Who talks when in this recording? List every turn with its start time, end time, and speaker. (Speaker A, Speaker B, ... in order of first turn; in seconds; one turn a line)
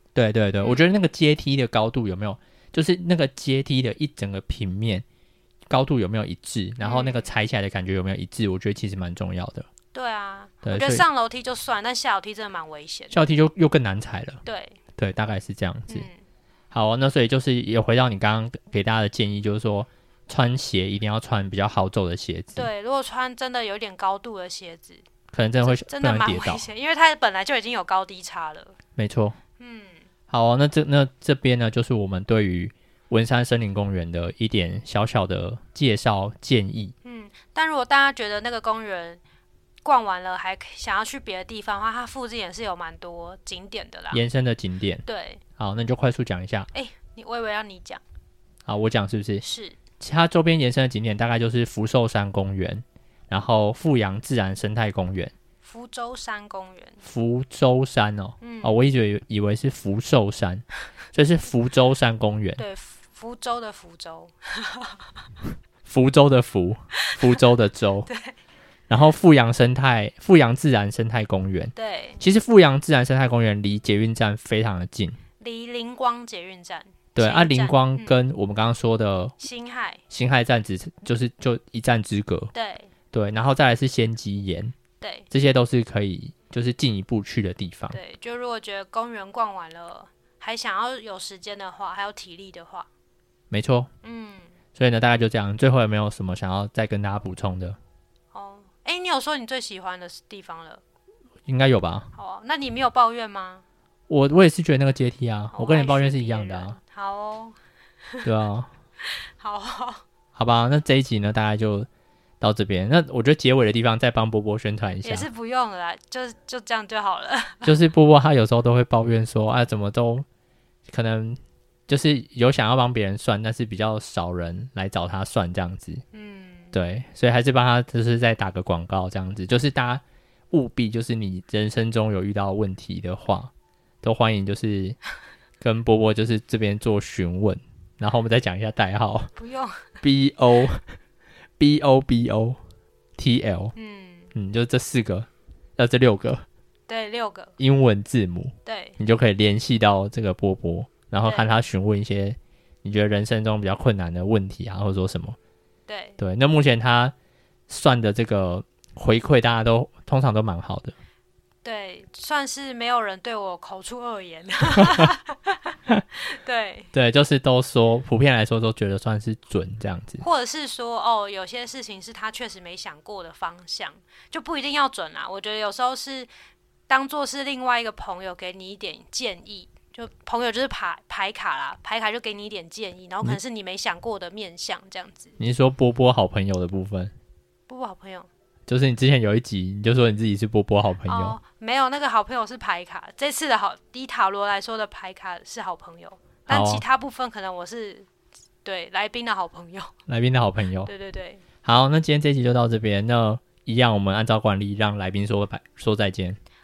Speaker A: 0.1-5.0
Speaker B: 0.6-0.8
Speaker A: 5.7-9.7
Speaker B: 6.8-7.3
Speaker B: 9.9-13.2
Speaker A: 10.6-11.0
Speaker A: 13.1-14.4
Speaker B: 14.4-14.8
Speaker A: 14.9-16.1
Speaker B: 15.9-16.2
Speaker A: 16.7-22.7
Speaker B: 22.5-25.0
Speaker A: 25.3-26.6
Speaker B: 25.6-28.7
Speaker A: 29.0-29.4
Speaker B: 29.6-30.0
Speaker A: 30.3-36.9
Speaker B: 37.0-39.2
Speaker B: 39.8-44.2
Speaker A: 44.1-45.0
Speaker B: 45.0-45.4
Speaker A: 45.6-46.7
Speaker B: 46.7-48.0
Speaker A: 48.6-49.4
Speaker B: 49.4-49.8
Speaker A: 50.0-55.3
Speaker B: 55.6-57.0
Speaker A: 57.0-62.6
Speaker B: 58.4-58.7
Speaker B: 62.6-65.1
Speaker A: 65.8-68.1
Speaker B: 68.1-68.3
Speaker A: 68.9-75.2
Speaker B: 71.7-72.2
Speaker B: 75.4-78.2
Speaker A: 77.2-79.3
Speaker B: 79.4-80.0
Speaker A: 80.1-82.5
Speaker B: 82.5-82.9
Speaker A: 83.1-84.7
Speaker B: 85.0-85.3
Speaker A: 85.3-88.0
Speaker B: 87.9-92.9
Speaker A: 93.5-93.9
Speaker B: 94.0-94.5
Speaker A: 94.8-97.8
Speaker B: 98.3-100.8
Speaker A: 101.5-102.1
Speaker B: 102.1-103.6
Speaker A: 104.1-106.8
Speaker B: 105.5-107.5
Speaker A: 108.2-108.7
Speaker B: 109.1-110.0
Speaker A: 110.3-111.9
Speaker A: 112.4-115.3
Speaker B: 115.0-117.8
Speaker A: 117.6-120.2
Speaker A: 120.9-126.0
Speaker B: 126.1-126.8
Speaker A: 126.7-133.5
Speaker A: 134.0-135.0
Speaker A: 135.6-139.3
Speaker B: 139.4-140.0
Speaker A: 140.0-140.8
Speaker A: 141.6-142.6
Speaker A: 143.2-143.7
Speaker B: 143.7-144.3
Speaker A: 144.3-146.4
Speaker B: 146.9-147.5
Speaker A: 147.6-155.4
Speaker B: 148.6-148.9
Speaker B: 151.2-151.5
Speaker B: 155.9-156.2
Speaker A: 156.2-157.1
Speaker A: 157.7-160.9
Speaker B: 161.6-166.9
Speaker A: 164.8-165.1
Speaker A: 166.9-170.2
Speaker B: 170.2-176.3
Speaker B: 176.9-185.3
Speaker A: 185.4-187.1
Speaker B: 187.7-188.3
Speaker A: 188.7-191.4
Speaker B: 191.1-198.1
Speaker A: 196.5-196.8
Speaker B: 198.6-199.9
Speaker A: 200.1-200.9
Speaker B: 200.8-201.4
Speaker A: 201.6-206.4